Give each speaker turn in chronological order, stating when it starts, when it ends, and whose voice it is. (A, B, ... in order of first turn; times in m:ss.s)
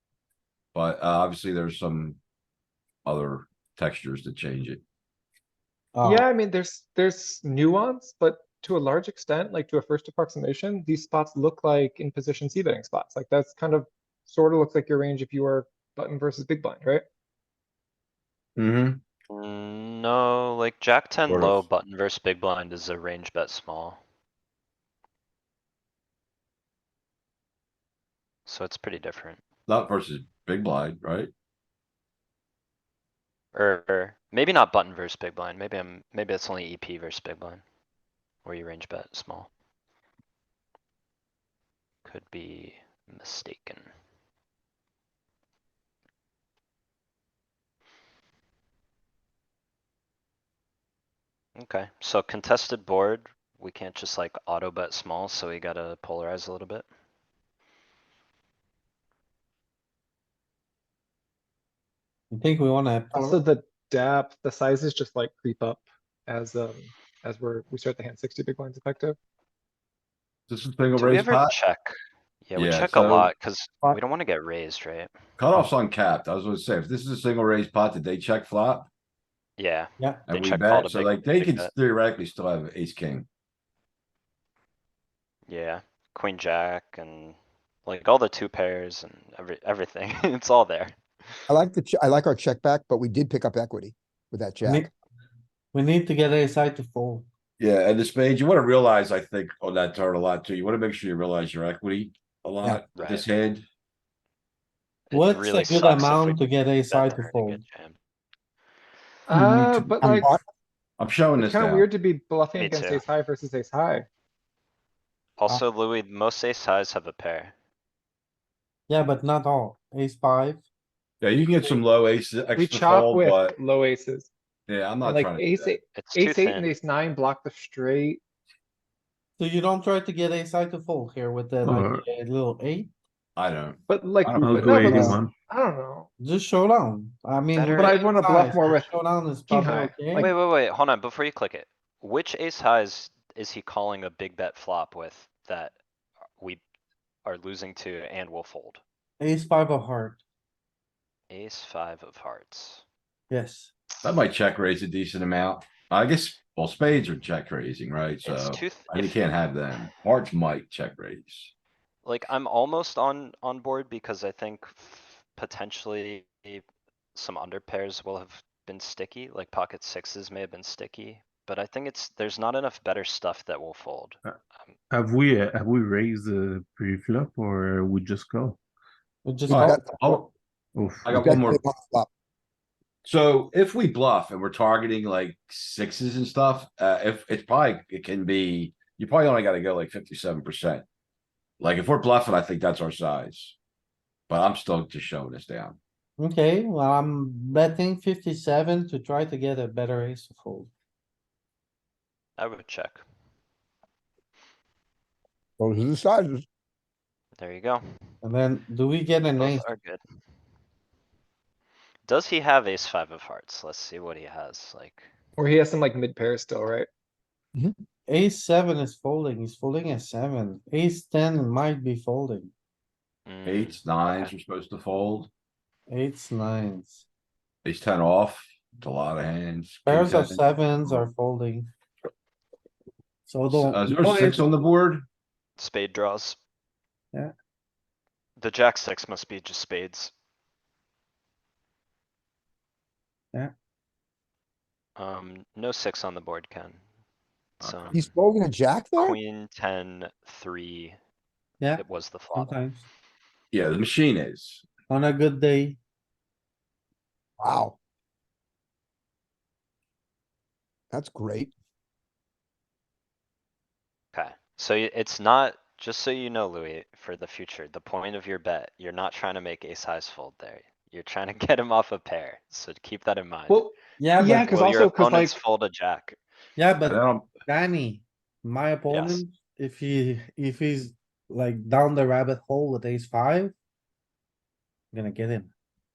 0:00.7-0:02.2 A
0:03.0-0:04.8 A
0:05.9-0:06.3 B
0:06.0-0:17.0 C
0:18.6-0:19.0 A
0:19.3-0:24.0 D
0:21.3-0:21.6 A
0:28.5-0:29.4 D
0:29.7-0:31.3 A
0:33.5-0:37.6 D
0:38.4-0:39.5 D
0:42.0-0:43.9 D
0:51.6-0:56.8 D
1:02.3-1:03.4 B
1:03.1-1:09.2 C
1:10.5-1:11.5 A
1:11.0-1:11.9 D
1:12.4-1:15.1 D
1:12.6-1:13.3 A
1:15.4-1:18.9 A
1:19.6-1:21.7 D
1:20.3-1:23.2 A
1:25.5-1:31.4 D
1:31.5-1:34.9 E
1:34.6-1:34.9 B
1:35.7-1:37.2 B
1:37.6-1:43.6 A
1:42.9-1:43.3 D
1:45.1-1:48.0 D
1:45.1-1:47.6 B
1:49.3-1:50.3 C
1:49.5-1:50.4 E
1:50.0-1:50.3 B
1:51.0-1:51.8 A
1:51.4-1:54.1 C
1:52.6-1:53.0 D
1:55.4-1:57.5 D
1:58.9-2:00.6 B
2:01.2-2:03.5 A
2:02.6-2:04.3 C
2:04.7-2:05.8 A
2:05.0-2:08.2 C
2:05.9-2:06.7 D
2:09.4-2:12.9 B
2:11.6-2:12.0 F
2:13.4-2:14.9 A
2:13.9-2:16.1 C
2:14.3-2:15.3 F
2:14.8-2:15.2 B
2:16.2-2:20.3 B
2:17.5-2:18.0 D
2:17.7-2:18.9 C
2:19.5-2:20.3 C
2:20.1-2:25.8 D
2:27.2-2:28.8 D
2:29.2-2:30.2 B
2:31.3-2:32.8 D
2:33.3-2:33.7 B
2:34.0-2:41.5 A
2:38.2-2:39.2 D
2:42.0-2:46.6 D
2:47.1-2:54.7 D
2:54.9-2:58.6 F
2:59.2-2:59.8 B
2:59.5-3:00.2 E
2:59.5-3:00.3 A
3:00.7-3:01.3 F
3:01.0-3:01.6 A
3:01.2-3:02.1 E
3:03.0-3:10.8 A
3:11.6-3:13.6 A
3:14.3-3:15.8 A
3:16.2-3:20.7 B
3:22.4-3:23.0 D
3:25.6-3:26.4 E
3:27.4-3:27.8 D
3:28.2-3:29.7 B
3:29.3-3:30.0 D
3:32.1-3:35.1 D
3:35.4-3:36.9 C
3:38.1-3:42.5 B
3:43.3-3:44.3 D
3:43.4-3:45.3 A
3:45.9-3:47.0 B
3:47.6-3:51.1 A
3:49.8-3:51.7 B
3:53.3-3:54.5 B
3:53.5-3:55.0 A
3:55.6-3:56.4 D
3:58.4-4:00.1 D
4:05.0-4:06.8 D
4:07.6-4:08.1 D
4:07.6-4:08.0 A
4:07.9-4:09.2 E
4:09.0-4:11.0 D
4:11.6-4:12.8 B
4:11.8-4:12.6 D
4:13.5-4:14.6 A
4:14.9-4:15.8 B
4:17.4-4:17.8 E
4:20.9-4:21.5 E
4:24.1-4:33.6 D
4:33.5-4:35.3 C
4:34.0-4:34.5 B
4:34.2-4:36.2 D
4:36.6-4:43.5 B
4:36.8-4:37.3 A
4:38.9-4:39.2 D
4:44.9-4:45.5 B